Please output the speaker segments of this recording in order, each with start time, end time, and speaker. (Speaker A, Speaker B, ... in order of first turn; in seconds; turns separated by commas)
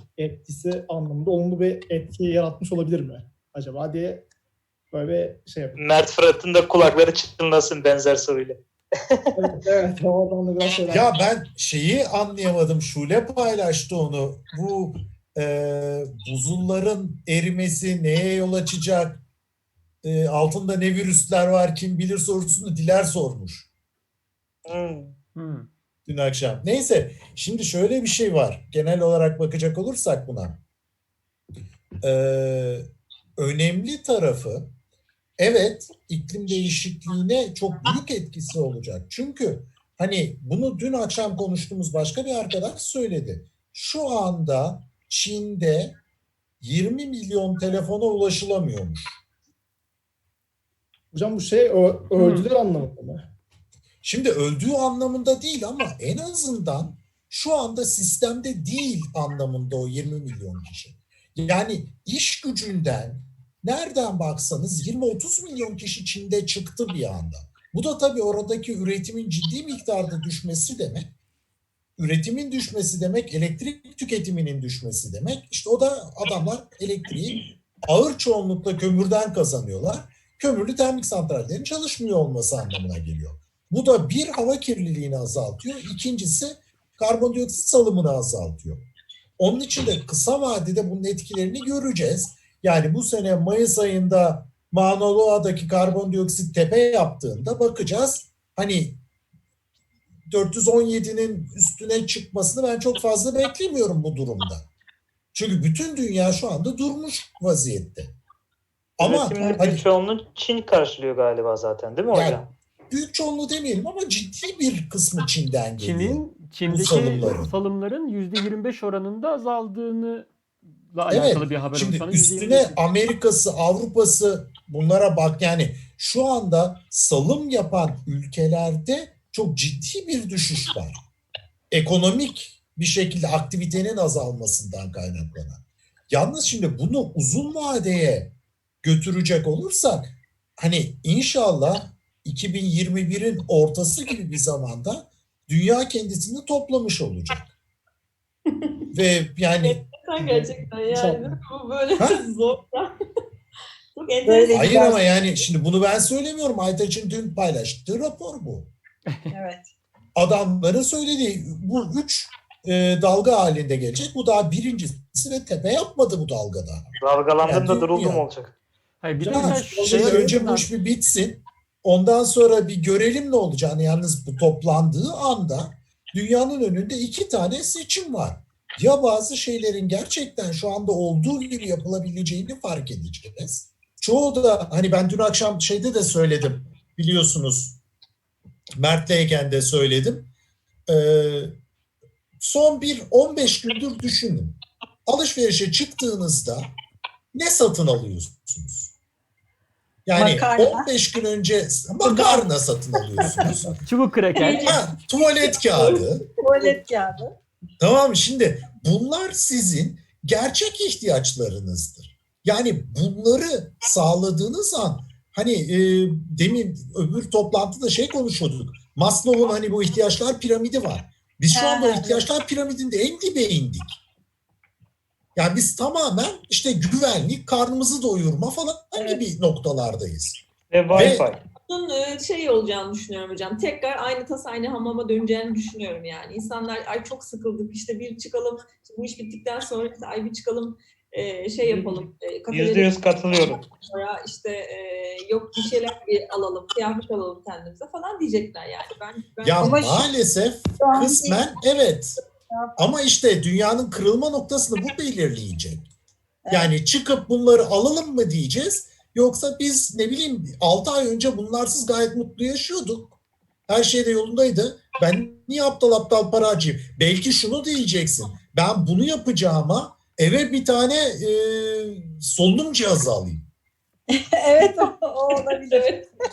Speaker A: 0.2-4.2, Speaker A: 4.9-5.8, Speaker B: 5.7-8.6, Speaker A: 9.3-11.1, Speaker C: 10.9-19.2, Speaker C: 20.0-23.7, Speaker B: 24.7-25.1, Speaker D: 25.4-25.7, Speaker C: 26.1-30.6, Speaker C: 32.0-34.7, Speaker C: 35.4-45.9, Speaker C: 46.6-49.2, Speaker A: 51.1-53.2, Speaker D: 52.1-52.5, Speaker C: 54.0-71.1, Speaker C: 72.0-88.8, Speaker C: 89.4-99.0, Speaker C: 100.3-104.7, Speaker C: 105.3-108.1, Speaker C: 109.0-109.8, Speaker B: 109.0-112.5, Speaker C: 112.1-112.4, Speaker C: 112.9-117.5, Speaker D: 115.8-120.3, Speaker D: 120.9-122.8, Speaker C: 121.1-131.0, Speaker C: 131.7-138.3, Speaker C: 138.8-147.5, Speaker C: 148.9-149.8, Speaker E: 149.6-152.9, Speaker A: 150.2-151.4, Speaker E: 153.9-155.0, Speaker F: 154.2-155.2, Speaker C: 154.5-158.7, Speaker F: 159.3-159.7, Speaker C: 160.1-166.9, Speaker B: 167.0-168.5, Speaker C: 167.4-168.2, Speaker D: 169.0-170.4, Speaker A: 169.2-170.6, Speaker C: 169.3-187.8, Speaker C: 188.8-190.3, Speaker C: 190.9-191.5, Speaker C: 192.4-196.7, Speaker C: 197.3-198.9, Speaker C: 200.1-203.8, Speaker F: 200.1-200.9, Speaker F: 202.0-202.5, Speaker F: 203.1-203.6, Speaker D: 203.8-204.8, Speaker E: 204.3-204.8, Speaker C: 204.6-206.2, Speaker E: 205.4-206.8, Speaker F: 206.4-207.3, Speaker C: 207.8-224.0, Speaker F: 221.5-222.3, Speaker C: 225.3-231.2, Speaker F: 228.9-229.2, Speaker B: 230.7-231.4, Speaker E: 231.7-242.9, Speaker B: 241.7-243.6, Speaker E: 243.5-250.0, Speaker C: 249.4-252.2, Speaker F: 249.6-250.1, Speaker F: 250.8-251.5, Speaker C: 252.8-255.9, Speaker F: 256.4-256.7, Speaker C: 256.5-263.2, Speaker C: 263.7-273.4, Speaker F: 274.1-276.0, Speaker E: 275.7-276.1